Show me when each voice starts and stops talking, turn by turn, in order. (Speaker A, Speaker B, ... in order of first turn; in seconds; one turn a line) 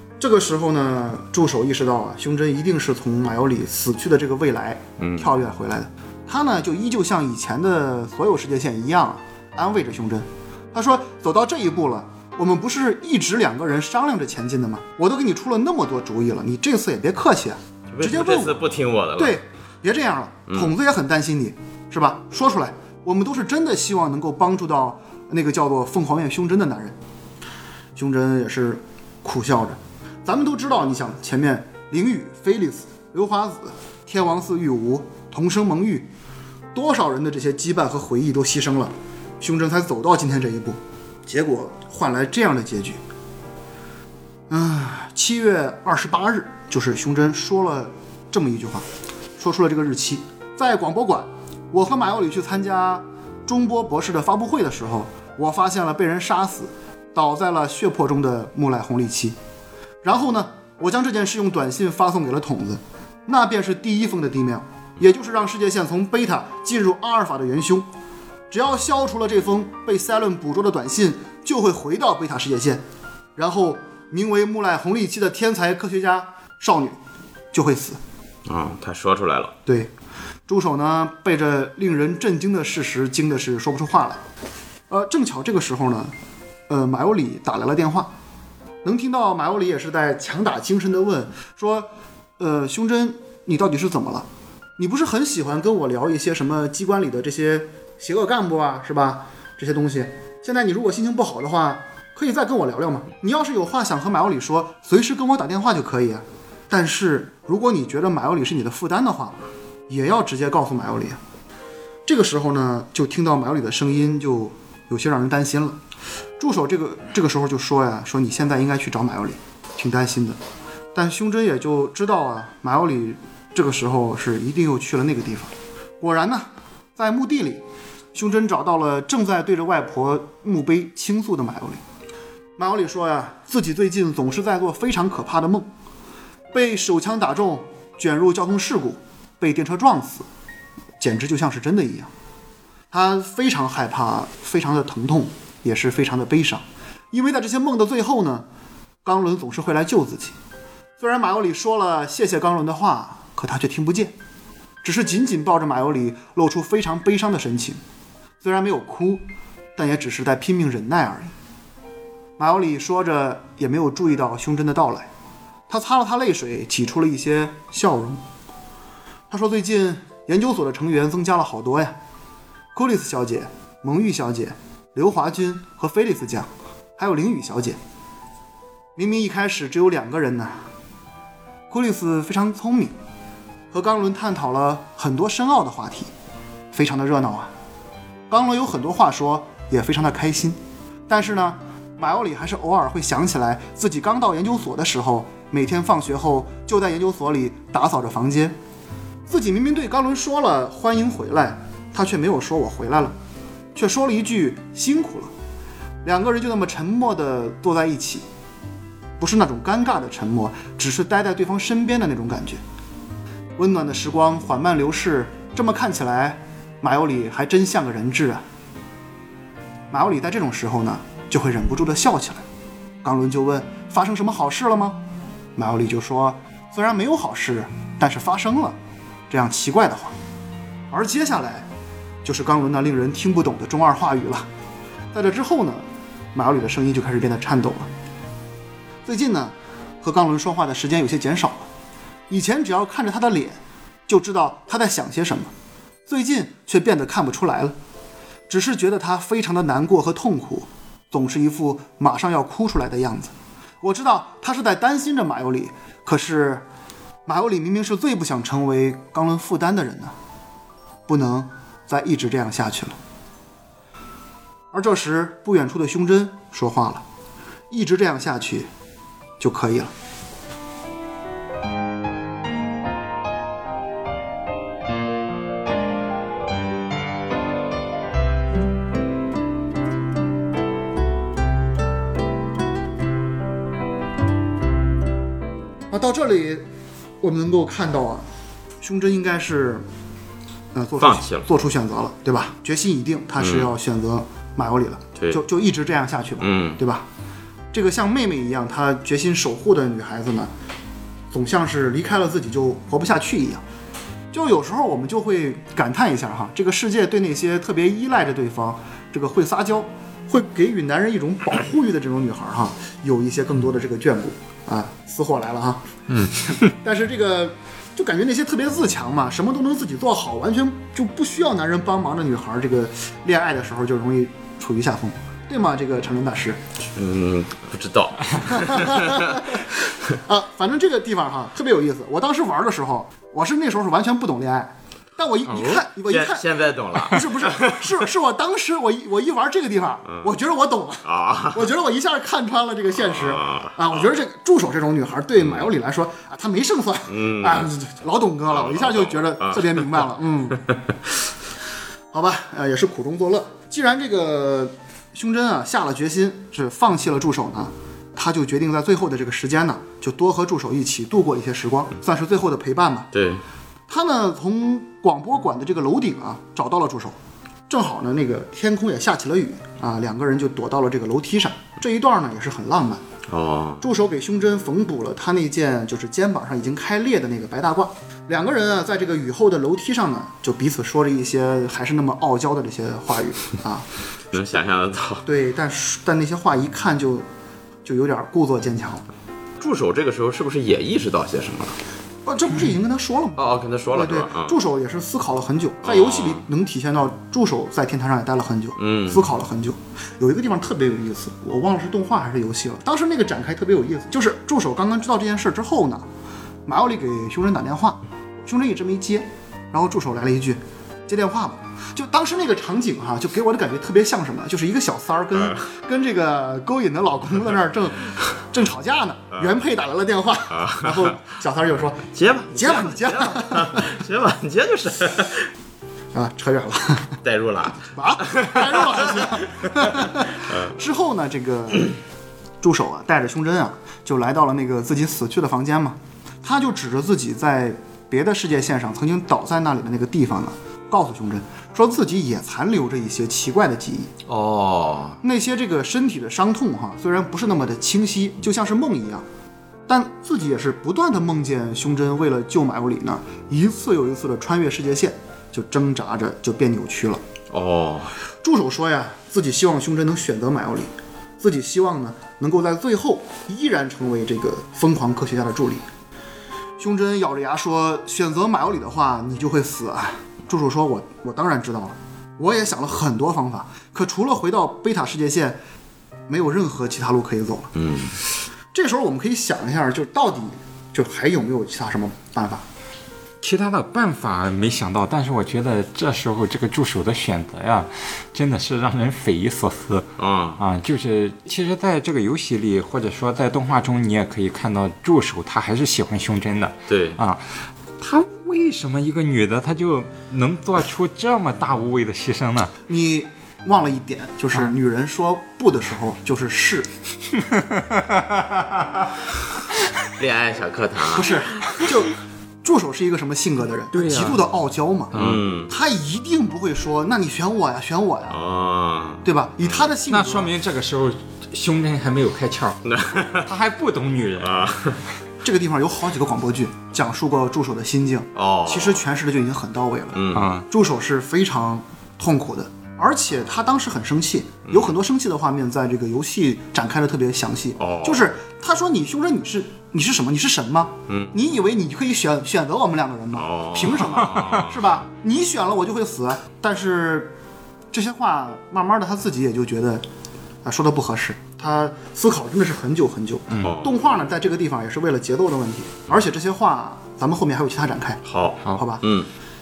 Speaker A: 0.2-18.6
Speaker B: 5.0-5.3
Speaker B: 17.9-19.4
Speaker A: 19.1-26.9
Speaker A: 27.9-36.1
Speaker A: 36.7-43.0
Speaker A: 44.5-48.8
Speaker A: 49.4-59.4
Speaker A: 60.0-67.9
Speaker A: 68.5-72.8
Speaker A: 73.3-77.0
Speaker A: 77.5-78.0
Speaker B: 78.5-79.5
Speaker A: 79.7-79.9
Speaker A: 80.5-84.2
Speaker A: 84.9-86.1
Speaker A: 86.7-88.1
Speaker A: 88.8-91.9
Speaker A: 92.4-94.2
Speaker A: 94.8-109.3
Speaker A: 109.9-111.2
Speaker A: 112.1-115.8
Speaker A: 116.4-120.4
Speaker A: 120.9-127.6
Speaker A: 128.1-131.8
Speaker A: 132.6-135.7
Speaker A: 136.5-140.2
Speaker A: 141.0-142.1
Speaker A: 142.9-148.4
Speaker A: 149.0-150.3
Speaker A: 151.0-154.1
Speaker A: 154.8-157.8
Speaker A: 158.4-159.2
Speaker A: 159.8-161.3
Speaker A: 162.4-165.1
Speaker A: 165.7-168.2
Speaker A: 169.3-171.9
Speaker A: 172.7-177.8
Speaker A: 178.9-180.7
Speaker A: 181.7-182.9
Speaker A: 183.7-186.1
Speaker A: 186.7-187.5
Speaker A: 188.3-198.5
Speaker A: 199.3-203.1
Speaker A: 203.7-205.3
Speaker A: 206.0-208.2
Speaker A: 209.2-212.6
Speaker A: 213.6-218.4
Speaker A: 219.9-222.4
Speaker A: 223.0-225.0
Speaker A: 225.6-228.8
Speaker A: 229.3-230.1
Speaker A: 230.9-231.7
Speaker A: 232.2-234.4
Speaker A: 235.1-237.9
Speaker A: 239.1-241.7
Speaker A: 242.3-245.5
Speaker A: 246.1-247.7
Speaker A: 248.5-256.6
Speaker A: 257.2-260.1
Speaker A: 261.1-262.9
Speaker A: 264.7-267.0
Speaker A: 267.7-268.7
Speaker A: 269.4-269.9
Speaker A: 285.9-286.6
Speaker A: 287.2-288.2
Speaker A: 288.8-289.8
Speaker A: 290.7-297.0
Speaker B: 291.0-291.4
Speaker B: 293.4-293.7
Speaker B: 296.4-296.8
Speaker A: 297.7-300.5
Speaker A: 301.3-303.6
Speaker A: 304.3-315.8
Speaker C: 316.1-316.6
Speaker A: 316.4-326.6
Speaker B: 326.9-329.6
Speaker A: 328.4-350.6
Speaker C: 335.5-335.8
Speaker B: 336.1-338.0
Speaker B: 341.0-341.7
Speaker B: 343.0-344.1
Speaker B: 345.4-345.7
Speaker B: 347.1-347.7
Speaker B: 348.5-350.1
Speaker A: 352.1-363.1
Speaker B: 363.1-363.4
Speaker A: 363.9-367.1
Speaker A: 367.7-373.0
Speaker B: 373.3-373.8
Speaker A: 373.8-383.8
Speaker B: 384.3-385.2
Speaker A: 385.2-387.2
Speaker A: 387.8-389.0
Speaker B: 389.6-391.8
Speaker A: 392.2-393.4
Speaker B: 393.4-394.6
Speaker A: 393.9-406.1
Speaker B: 395.8-396.4
Speaker B: 398.8-399.3
Speaker A: 406.7-423.8
Speaker B: 420.5-421.1
Speaker B: 422.1-425.5
Speaker A: 426.1-427.2
Speaker B: 427.2-430.7
Speaker A: 427.8-431.9
Speaker A: 432.6-444.1
Speaker B: 444.2-445.2
Speaker A: 445.2-449.2
Speaker A: 449.9-457.2
Speaker B: 457.5-458.1
Speaker A: 458.4-465.8
Speaker A: 466.8-475.6
Speaker A: 476.3-477.7
Speaker B: 477.7-478.2
Speaker A: 478.7-482.6
Speaker C: 483.4-502.7
Speaker B: 490.2-490.6
Speaker B: 496.9-497.2
Speaker A: 502.9-506.9
Speaker C: 507.5-509.1
Speaker B: 510.2-511.4
Speaker A: 511.1-512.1
Speaker A: 512.6-515.1
Speaker C: 513.9-514.4
Speaker C: 515.1-515.4
Speaker B: 515.1-515.7
Speaker A: 515.7-518.4
Speaker B: 518.3-519.9
Speaker A: 519.2-520.5
Speaker C: 520.1-522.8
Speaker B: 522.8-523.5
Speaker C: 523.4-524.6
Speaker B: 524.4-525.0
Speaker A: 525.4-547.3
Speaker B: 528.3-529.0
Speaker B: 530.1-530.5
Speaker C: 530.3-530.7
Speaker B: 534.7-534.9
Speaker B: 537.8-538.3
Speaker B: 541.1-541.3
Speaker B: 543.4-544.8
Speaker C: 544.3-544.6
Speaker A: 547.9-550.0
Speaker A: 550.6-558.2
Speaker B: 553.6-554.0
Speaker B: 558.2-559.3
Speaker A: 558.8-559.0